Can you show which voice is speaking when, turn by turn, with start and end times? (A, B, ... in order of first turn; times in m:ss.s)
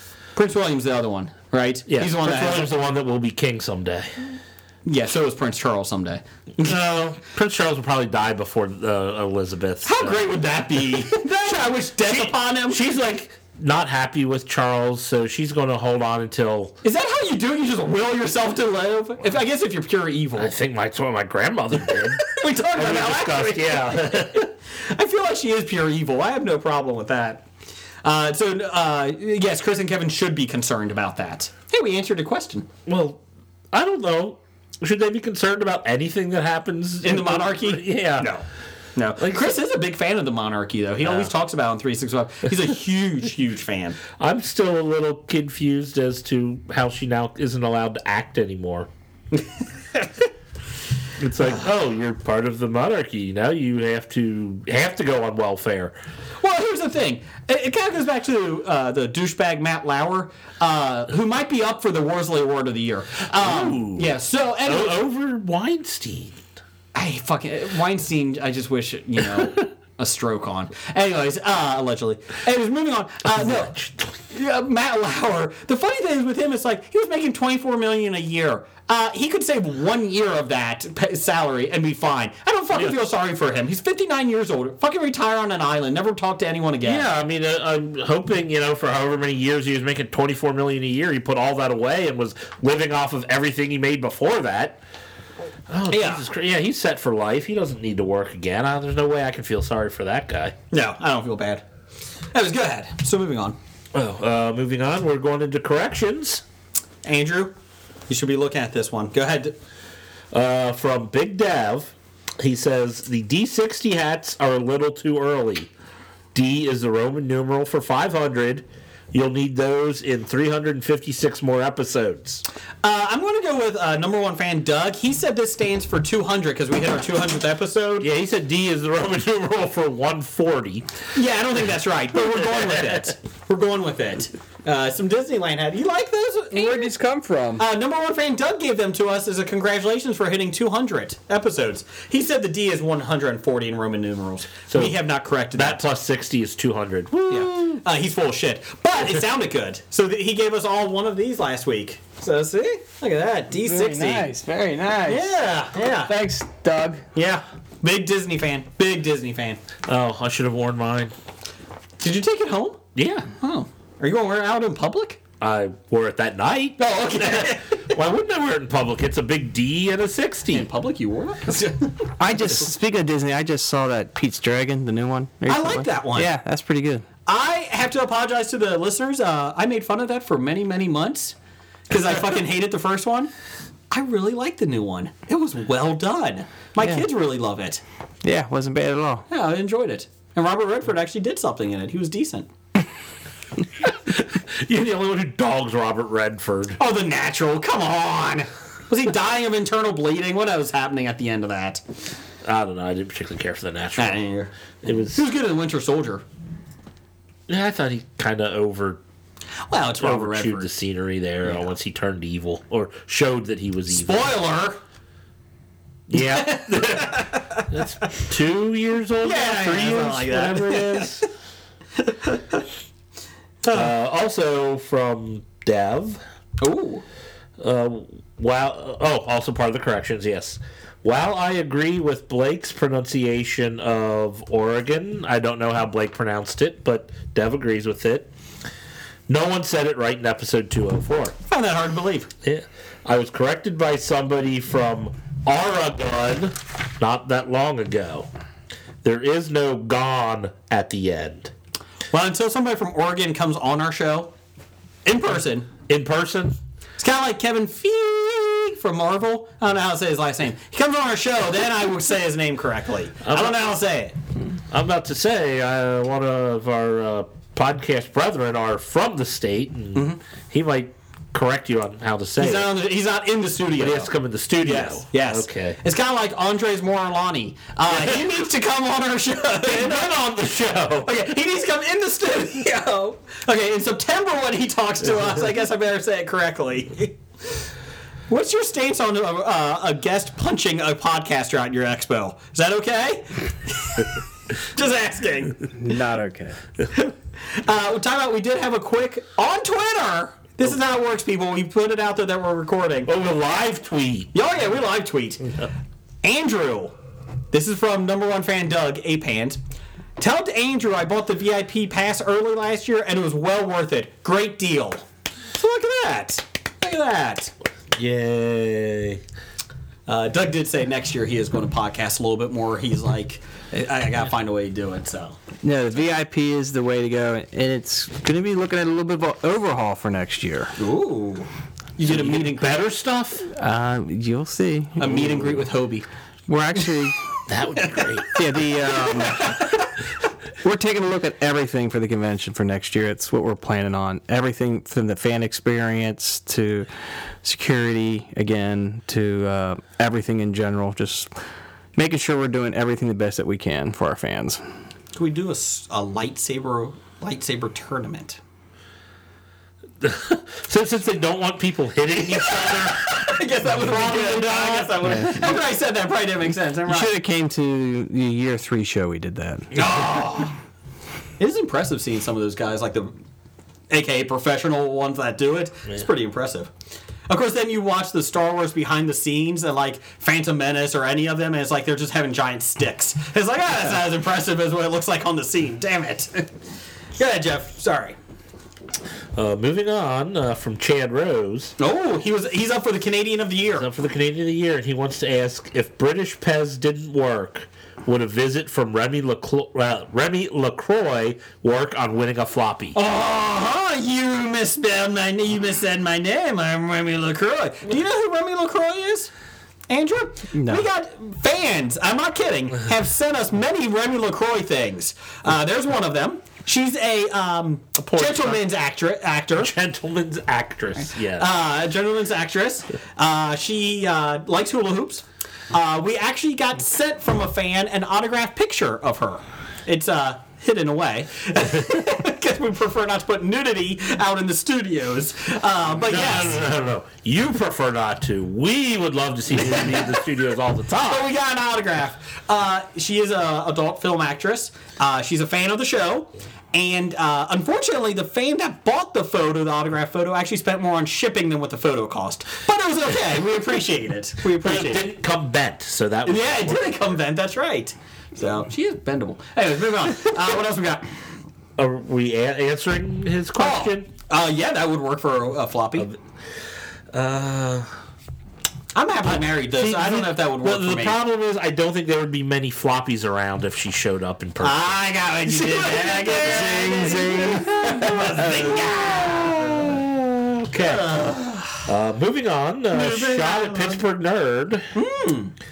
0:00.3-0:02.7 A
0:01.9-0:04.3 B
0:04.8-0:06.7 A
0:06.6-0:16.8 B
0:09.8-0:12.8 A
0:16.8-0:20.5 A
0:20.4-0:24.5 B
0:22.2-0:27.4 A
0:28.0-0:32.7 A
0:32.9-0:33.2 B
0:33.7-0:38.3 B
0:37.0-0:44.0 A
0:39.2-0:39.6 B
0:41.0-0:41.3 B
0:44.2-0:48.9 B
0:49.3-0:50.1 A
0:51.2-0:55.9 B
0:56.4-1:05.0 A
1:03.3-1:06.4 B
1:06.9-1:13.7 A
1:13.3-1:14.1 B
1:14.3-1:27.1 A
1:26.8-1:34.8 B
1:35.7-1:40.5 B
1:35.9-1:36.2 A
1:40.7-1:41.6 A
1:42.3-1:43.6 A
1:43.9-1:46.4 B
1:47.0-1:47.5 A
1:48.1-1:49.6 A
1:50.3-1:55.7 B
1:56.3-2:02.4 B
2:02.8-2:08.1 A
2:08.0-2:10.9 B
2:11.1-2:16.9 A
2:12.1-2:13.0 B
2:16.5-2:17.6 C
2:17.6-2:25.9 A
2:24.7-2:25.0 B
2:25.5-2:27.8 B
2:27.3-2:34.3 A
2:33.5-2:37.0 C
2:35.0-2:36.1 A
2:37.1-2:39.6 A
2:39.9-2:41.1 B
2:42.0-2:42.8 A
2:43.0-2:43.3 B
2:43.4-2:45.2 A
2:45.4-2:50.7 B
2:46.8-2:47.8 A
2:50.5-2:52.1 A
2:52.2-2:57.0 C
2:55.5-2:56.3 A
2:57.2-3:01.4 A
3:01.9-3:03.3 A
3:03.9-3:07.8 A
3:08.2-3:09.2 C
3:09.3-3:12.5 A
3:13.8-3:16.8 B
3:16.8-3:21.8 A
3:22.4-3:24.2 B
3:24.0-3:26.2 A
3:24.8-3:25.2 B
3:27.5-3:29.0 B
3:29.7-3:30.7 A
3:30.0-3:34.3 B
3:33.9-3:34.8 A
3:36.1-3:41.3 B
3:36.1-3:37.6 A
3:39.2-3:41.1 A
3:42.1-3:42.6 A
3:43.6-3:43.9 A
3:43.7-3:46.2 B
3:46.6-3:47.0 A
3:47.6-3:58.3 B
3:59.3-4:01.3 B
4:01.5-4:02.3 A
4:02.4-4:08.3 B
4:09.0-4:11.5 B
4:12.1-4:14.3 A
4:15.0-4:15.7 A
4:15.9-4:16.6 B
4:17.0-4:24.1 A
4:23.2-4:23.6 B
4:24.7-4:32.8 B
4:32.4-4:40.1 A
4:33.8-4:35.8 B
4:39.6-4:41.3 B
4:41.0-4:47.2 A
4:48.3-4:54.1 A
4:54.6-4:55.6 A
4:55.7-4:56.6 C
4:56.9-5:03.1 A
5:03.1-5:04.3 B
5:04.3-5:05.4 A
5:06.2-5:06.9 A
5:07.5-5:09.6 A
5:10.2-5:17.5 A
5:17.9-5:19.2 B
5:20.1-5:25.4 A
5:25.6-5:30.7 C
5:30.8-5:32.8 A
5:32.0-5:33.5 B
5:33.5-5:35.2 C
5:35.0-5:36.1 A
5:36.5-5:37.2 C
5:37.5-5:38.4 B
5:38.3-5:39.6 C
5:39.4-5:39.6 A
5:40.6-5:46.9 C
5:47.4-5:51.3 C
5:52.0-5:54.6 C
5:55.1-5:58.4 A
6:00.0-6:05.0 B
6:02.4-6:07.1 A
6:05.0-6:05.5 C
6:06.8-6:09.7 C
6:09.7-6:10.5 A
6:11.4-6:13.2 A
6:13.9-6:16.7 A
6:17.3-6:26.5 A
6:27.2-6:28.2 A
6:29.3-6:31.7 B
6:31.8-6:33.9 A
6:33.8-6:43.0 B
6:42.9-6:49.3 A
6:49.9-6:59.7 A
6:50.5-6:50.8 C
6:58.1-6:58.6 B
6:59.6-7:01.5 B
7:01.0-7:16.6 A
7:16.0-7:21.3 B
7:19.6-7:20.2 A
7:21.0-7:35.1 A
7:34.6-7:37.1 B
7:36.2-7:41.1 A
7:41.8-7:44.1 B
7:43.6-7:46.1 A
7:47.1-7:47.9 B
7:48.9-7:51.2 A
7:49.3-7:54.9 B
7:54.6-8:00.0 A
7:55.4-8:01.1 B
7:56.4-7:58.7 C
8:00.7-8:01.8 A
8:01.8-8:04.8 B
8:02.9-8:04.0 A
8:04.9-8:05.5 A